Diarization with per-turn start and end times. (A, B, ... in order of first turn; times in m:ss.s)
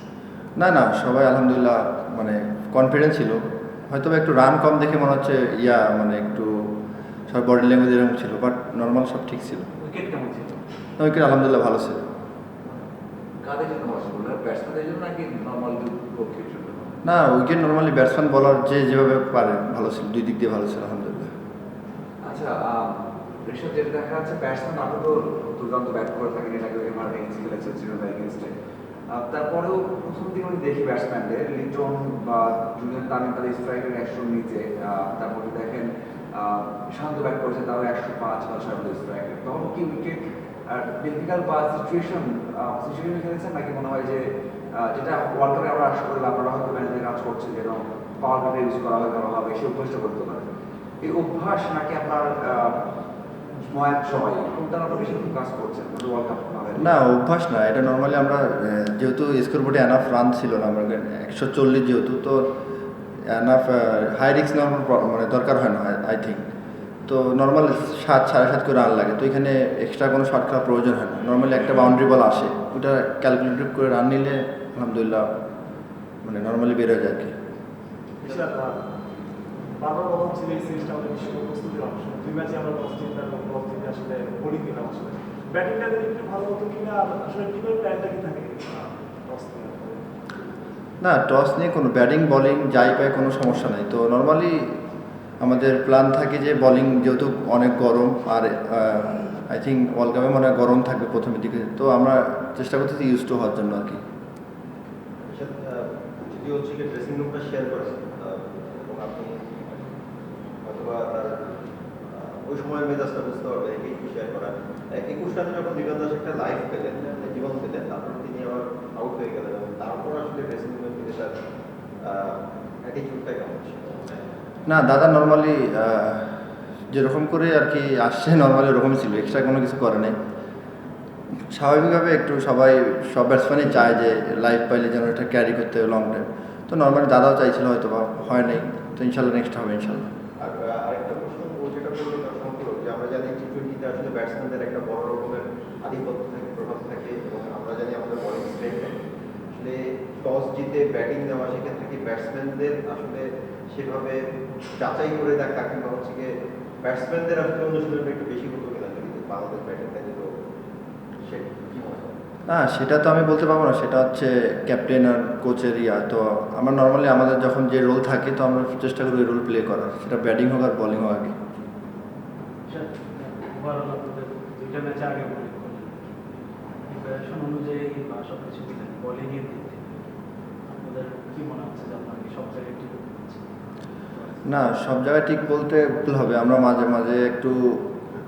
0:00.6-0:06.7 A
0:07.3-0:09.7 A
0:09.8-0:10.6 B
0:11.0-0:12.0 A
0:13.4-0:16.9 C
0:17.0-0:21.3 A
0:22.2-0:28.5 C
0:29.1-0:50.4 C
0:51.0-0:52.8 C
0:53.6-0:57.0 C
0:56.8-1:02.4 A
1:03.3-1:06.4 A
1:07.1-1:15.3 A
1:16.2-1:17.3 A
1:18.4-1:18.8 D
1:19.6-1:30.1 D
1:31.0-1:34.7 A
1:35.4-1:44.0 A
1:45.2-1:49.9 E
1:50.6-1:51.5 E
1:52.1-2:01.3 E
2:02.0-2:04.2 E
2:04.6-2:06.3 A
2:06.9-2:10.1 A
2:11.5-2:20.1 A
2:20.4-2:29.0 E
2:29.5-2:34.2 E
2:34.8-2:36.3 E
2:36.8-2:40.3 E
2:41.2-2:42.1 E
2:42.5-2:51.4 A
2:52.7-2:56.2 B
2:56.8-3:00.0 B
3:00.7-3:03.4 B
3:04.4-3:07.8 A